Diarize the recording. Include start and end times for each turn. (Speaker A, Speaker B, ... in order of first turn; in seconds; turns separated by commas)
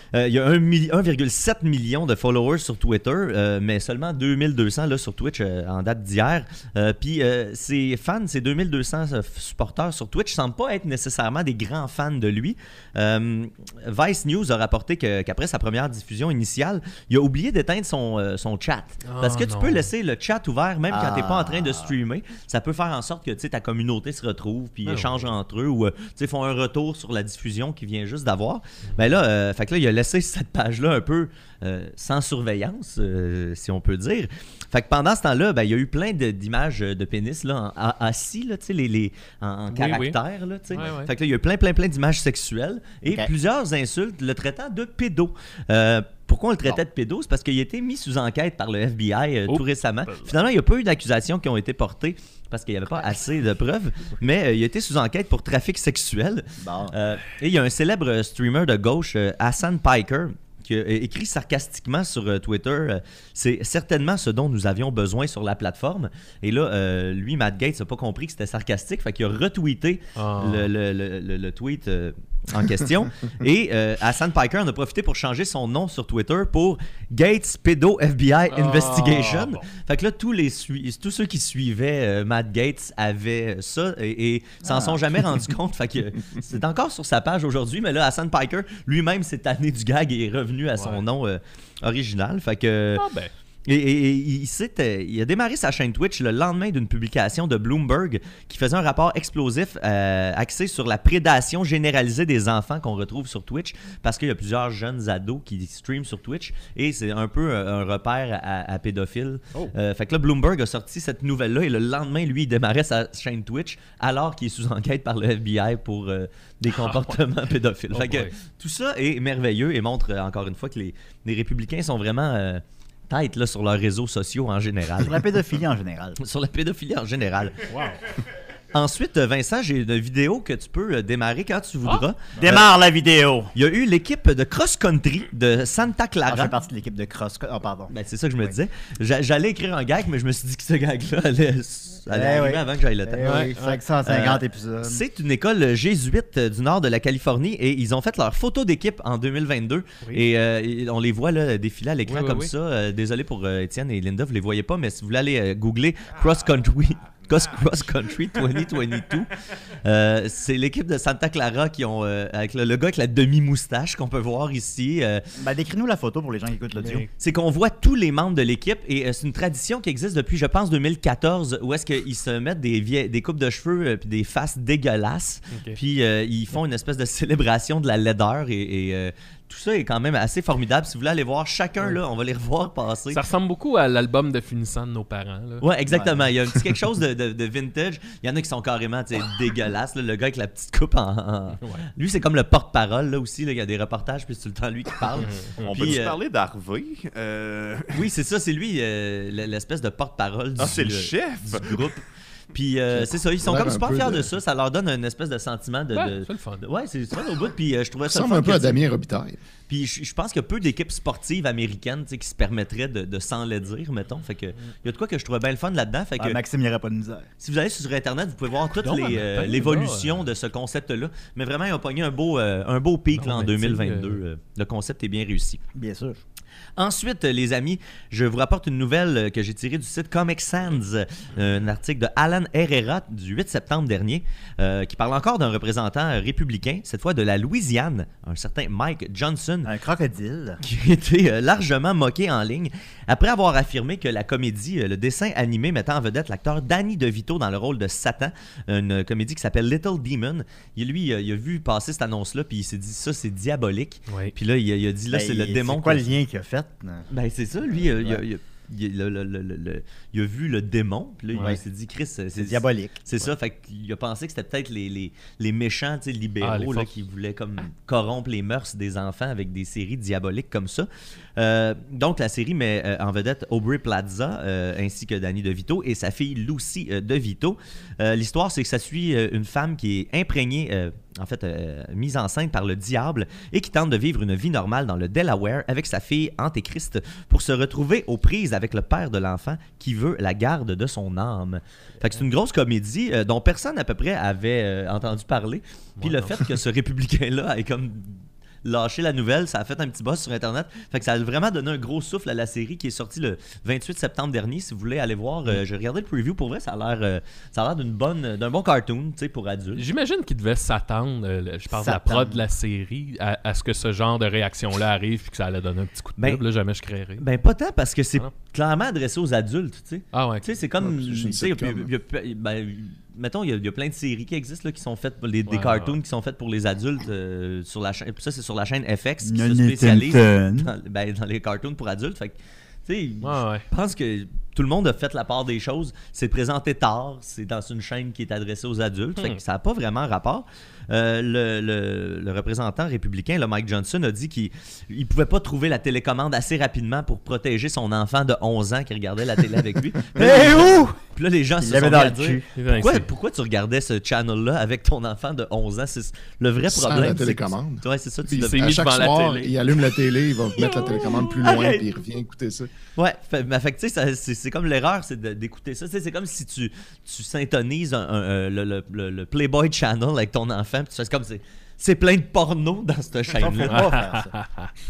Speaker A: 0.1-93.1, Speaker B: 19.0-19.9, Speaker C: 20.9-21.9, Speaker B: 24.9-25.3, Speaker B: 39.7-40.2, Speaker B: 40.7-41.1, Speaker B: 49.5-50.4, Speaker C: 56.6-57.0, Speaker B: 70.2-70.7, Speaker B: 78.5-79.7, Speaker C: 84.6-85.0, Speaker B: 90.8-91.0, Speaker B: 93.0-93.3, Speaker A: 93.7-125.2, Speaker B: 116.7-117.2, Speaker B: 117.9-118.3, Speaker C: 125.0-126.2, Speaker A: 126.2-127.7, Speaker B: 127.7-128.0, Speaker A: 128.7-132.7, Speaker C: 132.4-133.5, Speaker A: 133.6-136.6, Speaker C: 136.3-138.5, Speaker A: 137.9-143.5, Speaker C: 142.1-145.0, Speaker B: 143.2-143.8, Speaker A: 144.1-159.3, Speaker B: 152.1-152.5, Speaker D: 156.3-157.4, Speaker A: 159.8-165.3, Speaker C: 165.4-167.1, Speaker B: 166.8-167.1, Speaker A: 167.2-183.2, Speaker B: 175.5-175.8, Speaker B: 183.1-186.1, Speaker A: 185.6-196.2, Speaker B: 195.2-196.0, Speaker D: 195.6-198.1, Speaker A: 197.9-208.8, Speaker D: 200.6-201.9, Speaker E: 202.9-204.3, Speaker B: 205.9-206.7, Speaker E: 208.1-209.4, Speaker A: 209.7-216.4, Speaker C: 216.2-217.3, Speaker A: 217.4-225.6, Speaker B: 218.8-220.3, Speaker B: 223.1-224.2, Speaker C: 225.7-226.2, Speaker A: 226.8-239.7, Speaker C: 239.6-240.6, Speaker A: 240.6-256.2, Speaker B: 254.1-254.3, Speaker C: 255.1-257.1, Speaker A: 257.1-309.8, Speaker C: 257.7-258.2, Speaker C: 262.4-263.1, Speaker B: 266.4-266.9, Speaker B: 296.0-296.6, Speaker B: 309.7-317.2, Speaker C: 311.7-312.4, Speaker A: 316.2-316.4, Speaker A: 317.2-359.1, Speaker B: 320.1-320.5, Speaker E: 320.8-321.9, Speaker B: 325.5-326.0, Speaker C: 329.2-330.7, Speaker B: 333.2-333.7, Speaker C: 350.2-350.9, Speaker C: 351.6-352.5, Speaker B: 352.6-353.1, Speaker E: 356.7-362.7, Speaker B: 358.4-359.6, Speaker A: 360.8-361.9, Speaker A: 362.9-373.9, Speaker C: 373.4-374.3, Speaker B: 373.7-374.7